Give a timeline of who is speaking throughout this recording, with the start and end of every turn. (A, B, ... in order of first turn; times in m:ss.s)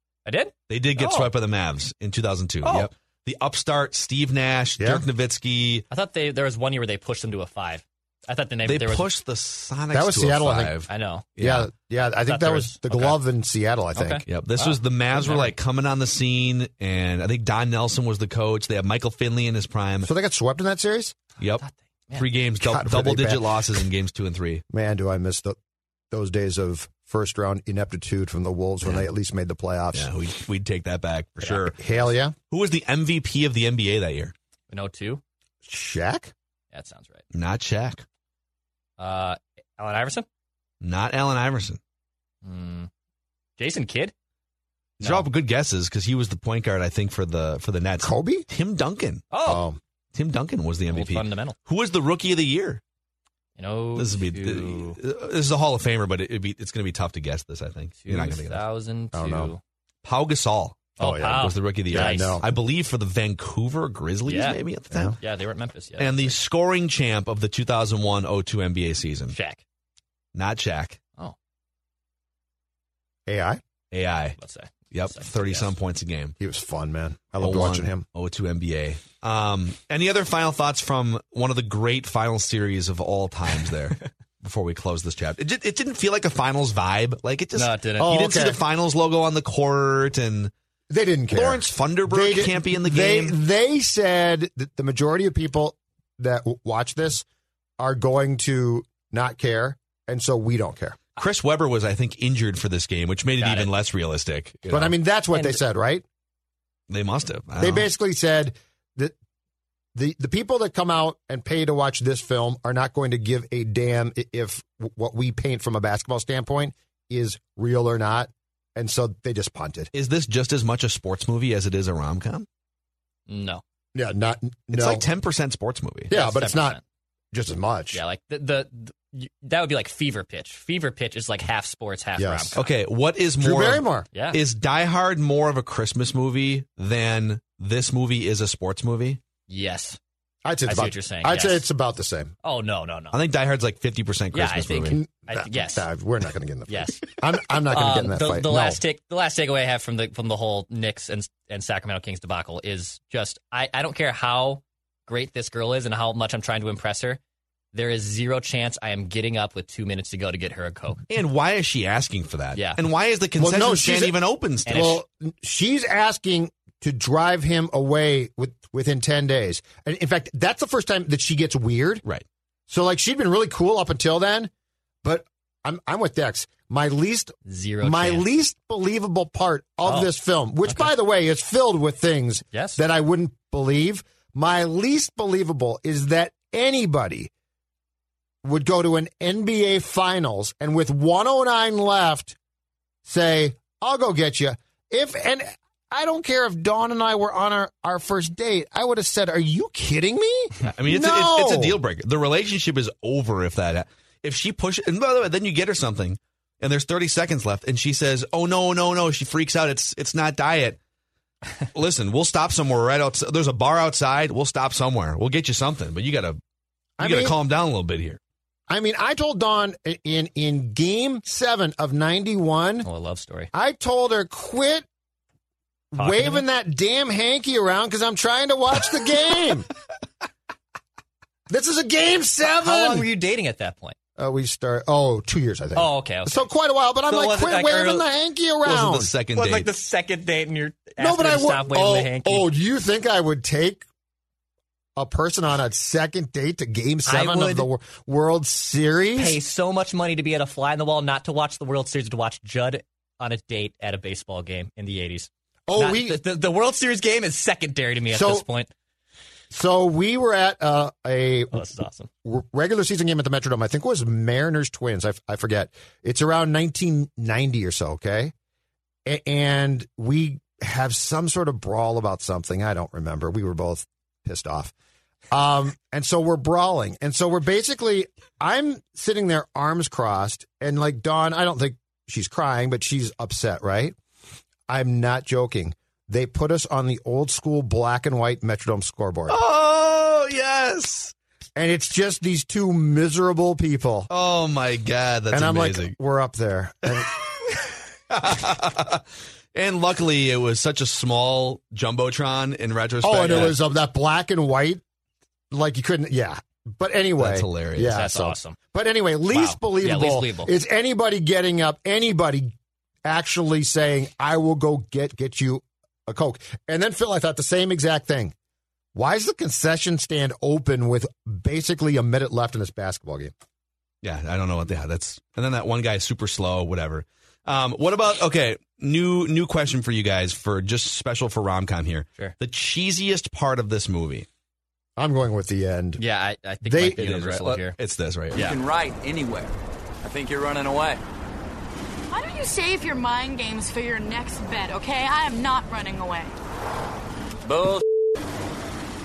0:00.2-0:01.3 A
0:00.7-0:05.8 B
0:02.6-0:02.9 A
0:04.8-0:05.0 C
0:05.9-0:09.1 A
0:08.6-0:11.7 B
0:09.9-0:10.8 C
0:10.9-0:11.6 A
0:11.4-0:14.2 C
0:12.3-0:13.2 A
0:14.0-0:15.5 A
0:14.3-0:20.1 B
0:20.0-0:21.2 C
0:21.4-0:24.6 B
0:21.6-0:22.2 A
0:22.6-0:23.8 C
0:24.7-0:25.6 C
0:26.1-0:30.1 C
0:29.9-0:31.8 B
0:31.4-0:32.0 A
0:31.8-0:32.3 C
0:32.5-0:34.3 B
0:34.7-0:35.2 A
0:35.6-0:36.3 C
0:36.7-0:37.2 A
0:37.3-0:38.0 B
0:39.0-0:40.2 A
0:40.8-0:41.8 B
0:42.4-0:42.9 A
0:43.6-0:44.1 A
0:45.0-0:49.2 B
0:45.0-0:45.3 A
0:48.0-0:48.4 C
0:49.3-0:49.6 A
0:49.4-0:49.8 C
0:50.1-0:52.8 B
0:50.9-0:51.6 A
0:53.6-0:55.0 A
0:53.9-0:58.6 B
0:58.0-0:59.6 A
0:59.1-0:59.5 C
1:00.0-1:05.2 B
1:01.0-1:02.4 A
1:01.0-1:02.6 C
1:04.2-1:04.6 A
1:05.2-1:06.4 A
1:06.0-1:09.4 B
1:09.3-1:09.6 A
1:10.3-1:11.0 B
1:13.3-1:13.6 C
1:13.9-1:14.4 B
1:14.4-1:15.7 A
1:14.9-1:16.3 B
1:16.4-1:18.0 C
1:17.4-1:30.5 B
1:27.5-1:28.1 A
1:28.0-1:28.6 C
1:30.9-1:37.2 C
1:31.3-1:33.3 B
1:37.8-1:41.0 C
1:41.2-1:44.9 B
1:43.4-1:43.7 A
1:44.7-1:46.0 C
1:45.3-1:45.6 A
1:46.9-1:47.8 B
1:47.6-1:49.1 C
1:49.9-1:59.9 C
1:59.9-2:02.4 B
2:03.3-2:03.6 A
2:03.9-2:05.0 C
2:04.7-2:06.1 B
2:06.1-2:06.8 C
2:06.1-2:06.8 A
2:07.3-2:08.0 C
2:07.9-2:12.6 A
2:12.2-2:12.6 C
2:12.5-2:19.2 B
2:13.4-2:14.1 C
2:14.1-2:14.4 A
2:19.5-2:20.0 A
2:20.4-2:22.3 C
2:20.6-2:21.6 A
2:22.4-2:23.2 A
2:23.1-2:25.0 B
2:24.3-2:25.8 A
2:24.9-2:28.8 C
2:26.7-2:27.2 A
2:27.7-2:37.2 A
2:37.7-2:41.0 A
2:41.1-2:45.0 B
2:42.5-2:42.8 A
2:43.4-2:52.0 C
2:44.7-2:45.0 A
2:52.7-2:54.5 C
2:55.0-3:07.3 C
2:57.4-2:58.2 A
3:00.6-3:00.9 A
3:02.5-3:02.8 A
3:08.4-3:12.4 C
3:13.0-3:21.8 C
3:20.7-3:30.8 B
3:31.7-3:36.4 B
3:37.0-3:37.4 C
3:37.0-3:38.2 B
3:38.7-3:42.9 C
3:42.8-3:43.5 A
3:43.5-3:44.9 C
3:45.9-3:49.7 C
3:46.0-3:46.4 A
3:51.5-3:53.1 C
3:52.5-3:54.0 A
3:54.2-3:59.1 C
3:55.8-3:56.5 A
3:57.1-3:58.0 A
3:58.6-3:59.7 B
3:59.3-4:02.5 A
4:01.0-4:03.8 C
4:05.0-4:09.4 C
4:07.0-4:07.7 A
4:09.2-4:18.7 A
4:15.7-4:16.2 C
4:18.1-4:18.4 C
4:19.5-4:21.6 C
4:21.5-4:22.1 A
4:22.2-4:28.3 C
4:29.0-4:34.7 C
4:35.3-4:43.9 C
4:44.7-4:49.4 C
4:49.3-4:51.1 B
4:51.6-4:54.1 C
4:54.1-4:55.9 B
4:55.3-4:57.2 C
4:58.1-5:03.6 B
5:03.0-5:04.8 C
5:05.5-5:12.5 C
5:07.2-5:08.0 B
5:07.9-5:08.6 A
5:09.3-5:10.5 A
5:13.0-5:18.3 C
5:18.9-5:23.3 C
5:24.0-5:34.3 B
5:35.0-5:36.0 C
5:36.0-5:37.7 A
5:36.6-5:37.1 C
5:37.0-5:38.4 B
5:38.3-5:41.0 D
5:42.1-5:46.3 E
5:47.4-5:47.8 D